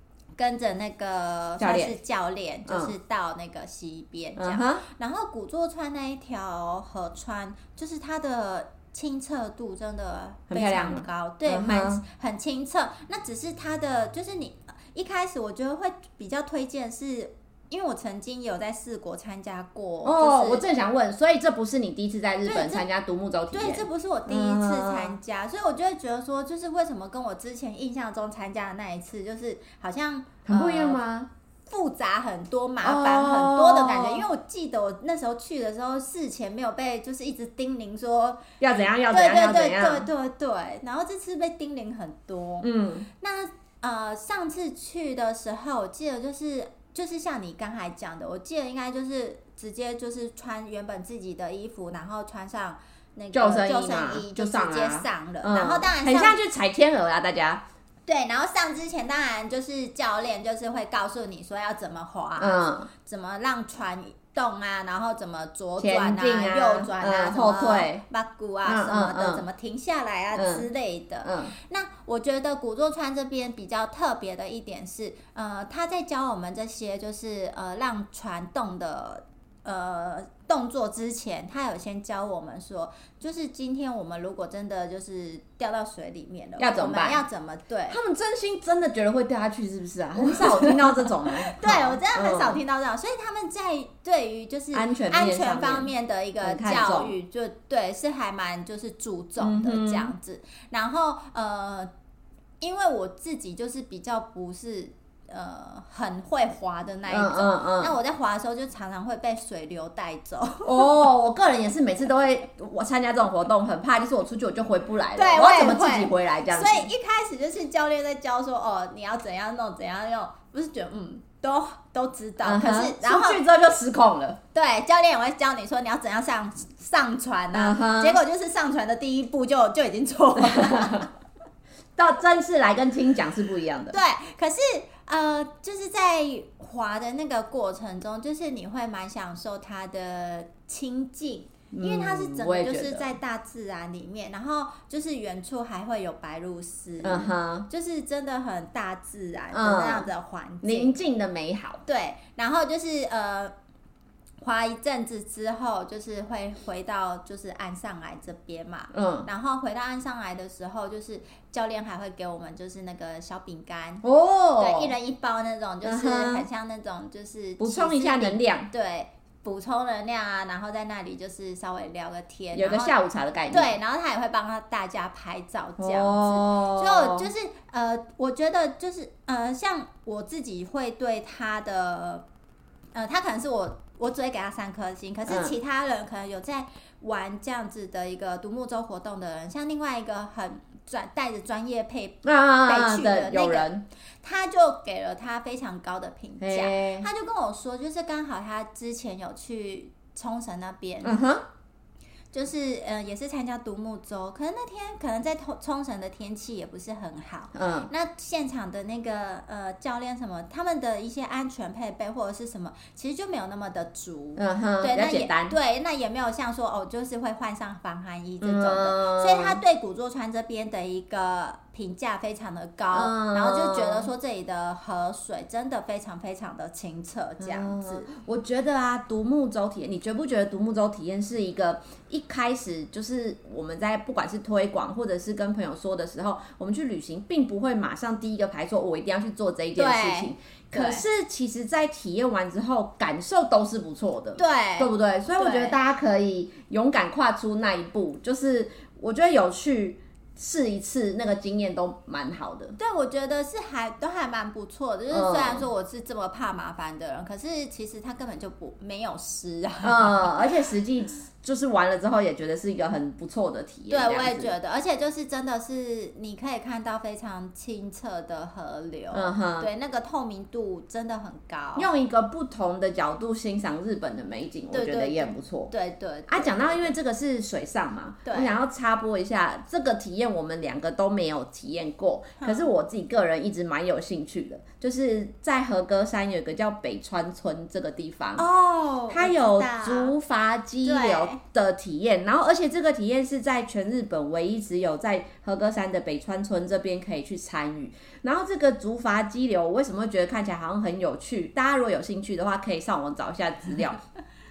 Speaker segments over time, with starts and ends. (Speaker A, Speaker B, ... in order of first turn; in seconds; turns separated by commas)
Speaker A: 0.4-20.6, Speaker B: 1.6-2.0, Speaker B: 2.7-2.9, Speaker B: 4.4-4.8, Speaker B: 10.5-12.0, Speaker B: 20.0-25.2, Speaker A: 22.4-22.9, Speaker A: 23.5-31.0, Speaker B: 30.5-31.3, Speaker A: 31.7-38.4, Speaker B: 32.8-34.2, Speaker B: 38.6-40.1, Speaker A: 39.1-42.7, Speaker B: 42.6-43.1, Speaker A: 43.2-56.4, Speaker B: 53.3-57.6, Speaker A: 58.1-88.0, Speaker B: 62.4-62.9, Speaker B: 65.8-68.0, Speaker B: 68.7-69.4, Speaker B: 70.3-70.7, Speaker B: 71.2-71.5, Speaker B: 86.6-87.2, Speaker B: 87.9-92.6, Speaker A: 90.2-101.9, Speaker B: 94.7-95.9, Speaker B: 96.4-97.1, Speaker B: 99.4-100.1, Speaker A: 102.6-110.9, Speaker B: 107.1-107.9, Speaker B: 110.7-116.9, Speaker A: 115.2-123.4, Speaker B: 122.4-124.4, Speaker A: 124.5-131.1, Speaker B: 127.5-128.2, Speaker B: 130.4-131.1, Speaker B: 132.0-134.0, Speaker A: 133.9-151.0, Speaker B: 141.7-143.1, Speaker B: 147.0-147.7, Speaker B: 149.5-150.1, Speaker B: 150.6-151.8, Speaker A: 151.9-153.5, Speaker A: 154.4-164.0, Speaker B: 158.9-159.3, Speaker B: 164.0-164.9, Speaker A: 164.6-172.9, Speaker B: 165.8-166.5, Speaker B: 167.6-168.7, Speaker B: 172.6-173.8, Speaker A: 173.5-182.2, Speaker B: 175.8-177.3, Speaker A: 182.9-193.7, Speaker B: 185.3-185.6, Speaker B: 192.2-193.8, Speaker A: 194.2-201.2, Speaker B: 196.4-197.1, Speaker B: 201.0-201.4, Speaker A: 202.3-228.1, Speaker B: 207.6-207.9, Speaker B: 214.4-215.6, Speaker B: 218.4-219.6, Speaker B: 222.9-224.1, Speaker B: 227.4-252.8, Speaker A: 239.8-241.0, Speaker A: 244.4-245.8, Speaker A: 252.8-260.3, Speaker B: 255.1-255.7, Speaker B: 259.8-264.5, Speaker A: 263.9-271.9, Speaker B: 269.1-269.7, Speaker B: 271.8-275.7, Speaker A: 274.7-276.9, Speaker B: 276.3-288.4, Speaker A: 278.2-278.6, Speaker A: 282.4-282.7, Speaker A: 288.4-290.1, Speaker B: 289.1-304.0, Speaker A: 290.8-291.4